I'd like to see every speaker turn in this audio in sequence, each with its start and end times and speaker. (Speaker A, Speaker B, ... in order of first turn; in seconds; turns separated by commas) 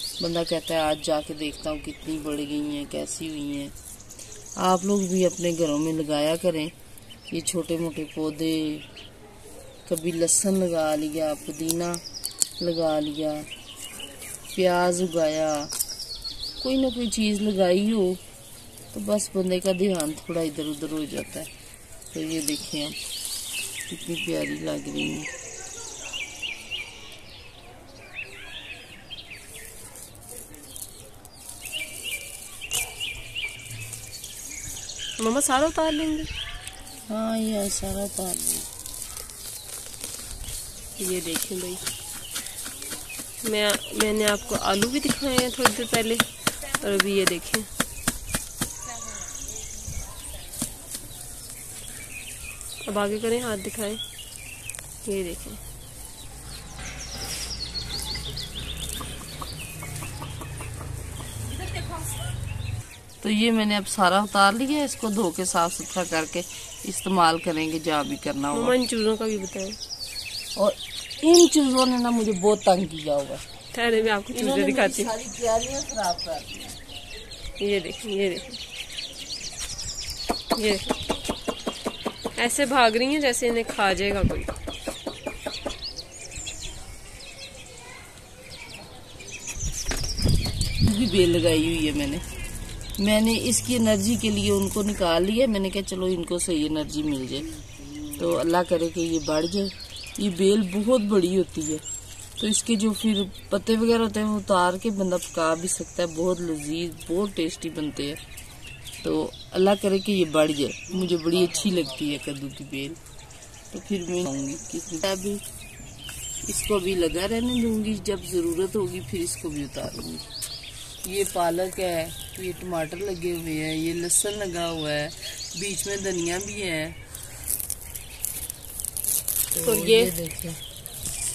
Speaker A: 0.2-3.7, Speaker A: 4.6-6.7, Speaker A: 7.3-8.9, Speaker A: 9.8-12.0, Speaker A: 12.6-13.5, Speaker A: 14.5-15.7, Speaker A: 16.6-18.2, Speaker A: 18.9-21.5, Speaker A: 22.1-23.0, Speaker A: 23.9-25.3, Speaker B: 35.2-36.3, Speaker A: 37.1-38.7, Speaker B: 41.0-41.8, Speaker B: 43.4-47.7, Speaker B: 52.8-54.0, Speaker B: 55.0-55.6, Speaker A: 63.2-68.8, Speaker B: 68.5-69.8, Speaker A: 70.5-73.4, Speaker B: 73.7-75.1, Speaker A: 74.1-76.8, Speaker B: 77.6-78.6, Speaker B: 80.5-81.0, Speaker B: 82.3-84.5, Speaker A: 90.8-92.2, Speaker A: 93.0-97.6, Speaker A: 98.2-101.8, Speaker A: 102.4-108.2, Speaker A: 109.0-113.0, Speaker A: 113.7-115.4, Speaker A: 116.5-120.2, Speaker A: 121.0-127.0, Speaker A: 129.5-130.6, Speaker B: 129.6-130.1